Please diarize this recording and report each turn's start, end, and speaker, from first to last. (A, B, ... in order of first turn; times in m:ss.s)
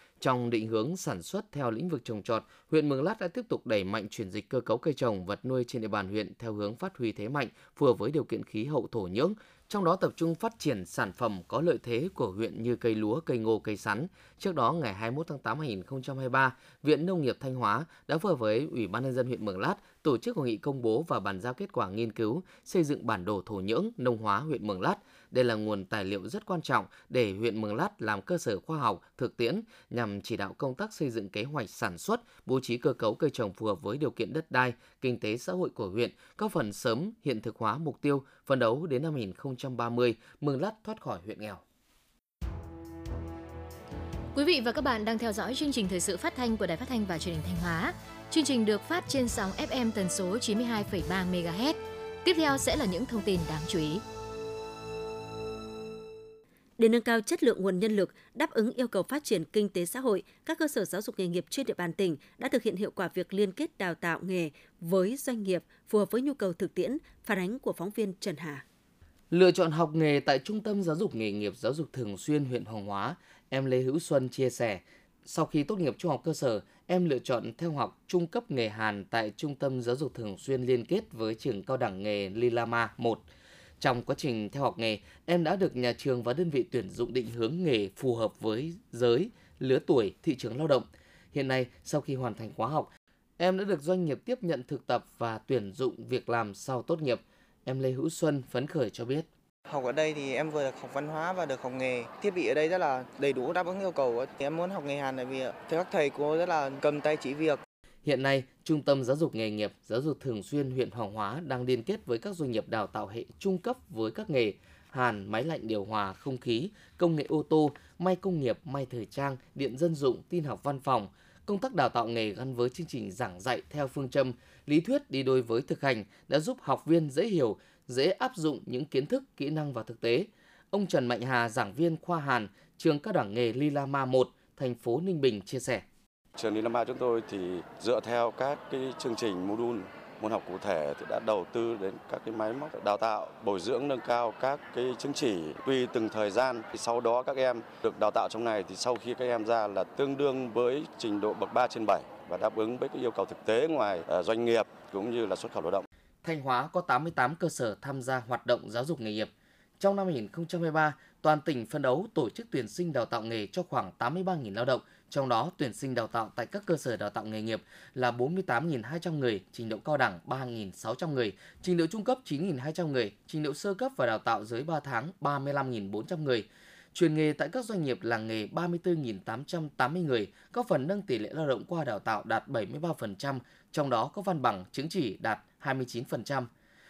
0:00.2-0:41.6 A
0:44.3-0:54.0 B
0:56.8-1:08.6 C
1:09.3-1:23.2 A
1:23.8-1:39.3 A
1:39.7-1:47.6 D
1:48.0-2:15.8 A
2:16.4-2:35.9 E
2:36.2-3:06.5 A